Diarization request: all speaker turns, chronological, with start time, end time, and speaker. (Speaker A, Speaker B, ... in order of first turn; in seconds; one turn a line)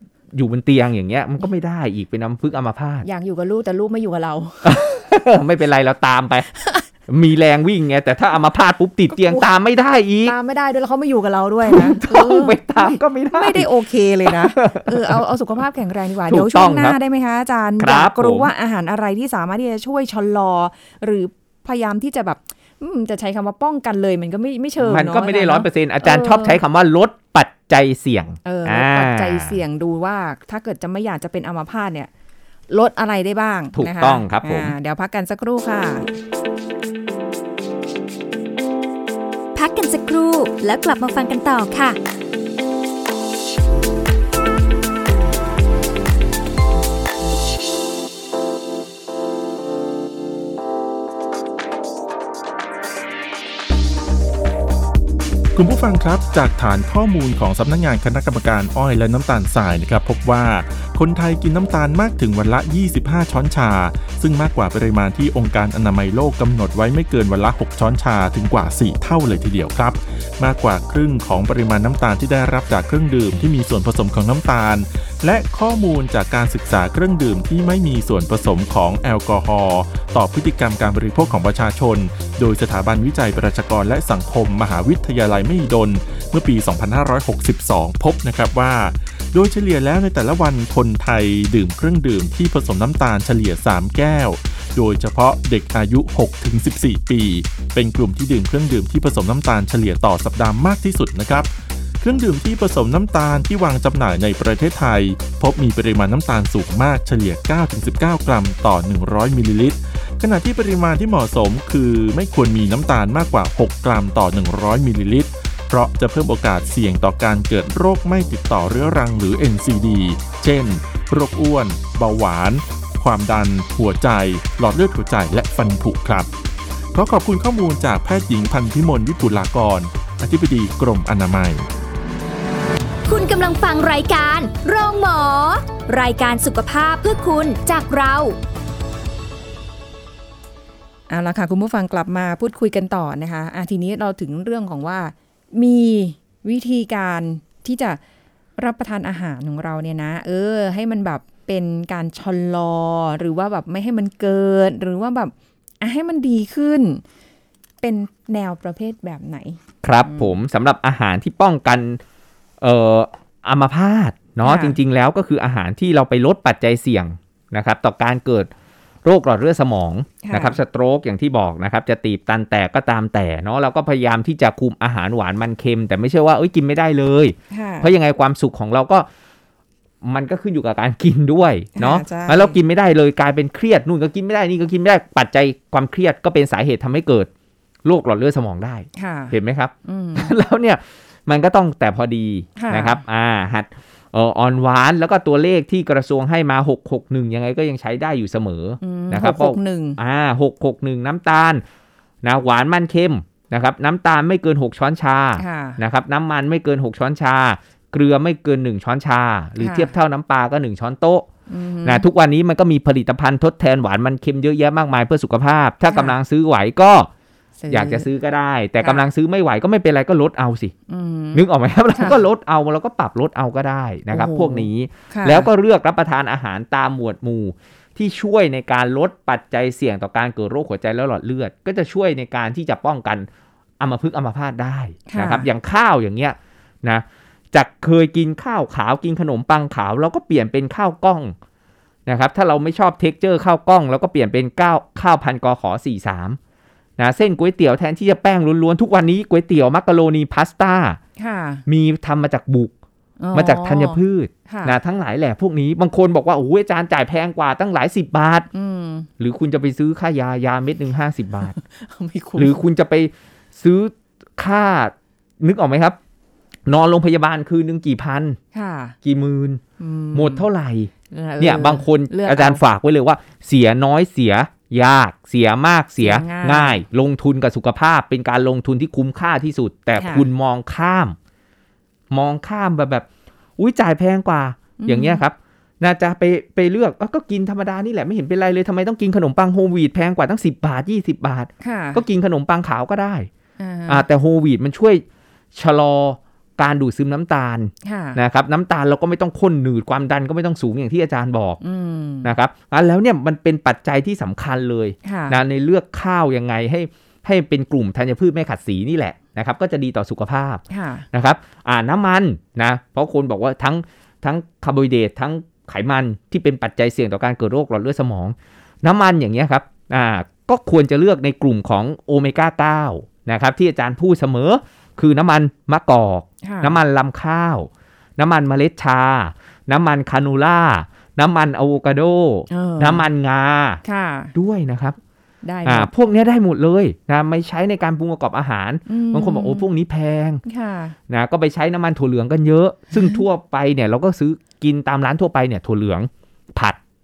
Speaker A: 0.3-3.0
Speaker B: 3.0-4.8
Speaker A: 4.6-6.5
Speaker A: 7.1-10.3
Speaker B: 9.1-9.5
Speaker B: 10.2-26.6
Speaker A: 11.6-13.7
Speaker A: 14.2-15.2
Speaker A: 16.3-17.0
Speaker A: 17.8-18.5
Speaker A: 24.8-29.6
Speaker B: 28.4-32.1
Speaker B: 32.7-36.1
Speaker A: 33.7-34.7
Speaker C: 39.5-42.0
Speaker D: 55.5-101.5
Speaker D: 102.0-126.3
Speaker D: 126.9-131.6
Speaker C: 133.1-138.4
Speaker B: 141.1-148.0
Speaker B: 148.6-157.0
Speaker B: 157.8-160.3
Speaker A: 159.8-162.0
Speaker A: 162.6-168.5
Speaker B: 164.4-164.8
Speaker A: 169.0-179.1
Speaker B: 170.2-170.6
Speaker B: 177.5-177.9
Speaker A: 180.0-187.3
Speaker B: 181.8-182.6
Speaker A: 187.8-201.6
Speaker B: 189.0-190.3
Speaker B: 192.6-193.0
Speaker B: 198.8-200.0
Speaker A: 202.2-211.3
Speaker B: 205.4-205.8
Speaker B: 209.6-209.9
Speaker B: 211.5-212.1
Speaker A: 211.8-217.1
Speaker B: 215.9-216.2
Speaker B: 217.6-218.1
Speaker A: 217.7-220.7
Speaker B: 220.9-221.4
Speaker A: 221.3-233.3
Speaker B: 221.9-222.2
Speaker B: 224.1-225.5
Speaker A: 233.8-241.3
Speaker B: 235.1-235.5
Speaker A: 242.1-246.4
Speaker A: 247.0-251.0
Speaker B: 251.2-251.6
Speaker A: 251.7-252.7
Speaker B: 253.2-254.8
Speaker A: 253.3-258.5
Speaker B: 258.5-259.1
Speaker A: 259.2-261.6
Speaker B: 261.6-262.6
Speaker A: 262.4-266.0
Speaker A: 266.6-268.4
Speaker B: 268.5-268.9
Speaker A: 269.0-269.6
Speaker B: 269.8-270.4
Speaker A: 270.1-281.1
Speaker B: 271.1-272.6
Speaker B: 276.0-276.8
Speaker B: 279.9-280.3
Speaker A: 282.1-283.1
Speaker A: 283.6-293.3
Speaker B: 284.8-285.2
Speaker B: 291.6-292.0
Speaker B: 293.6-294.1
Speaker A: 293.9-295.0
Speaker A: 295.5-301.6
Speaker B: 297.8-298.2
Speaker B: 301.6-302.3
Speaker A: 302.2-333.8
Speaker B: 305.0-305.4
Speaker B: 310.7-311.1
Speaker B: 326.4-326.8
Speaker B: 332.5-333.1
Speaker B: 333.8-334.3
Speaker A: 334.4-335.0
Speaker B: 335.4-335.9
Speaker A: 335.6-340.4
Speaker B: 338.9-339.6
Speaker B: 340.4-340.9
Speaker A: 341.1-346.8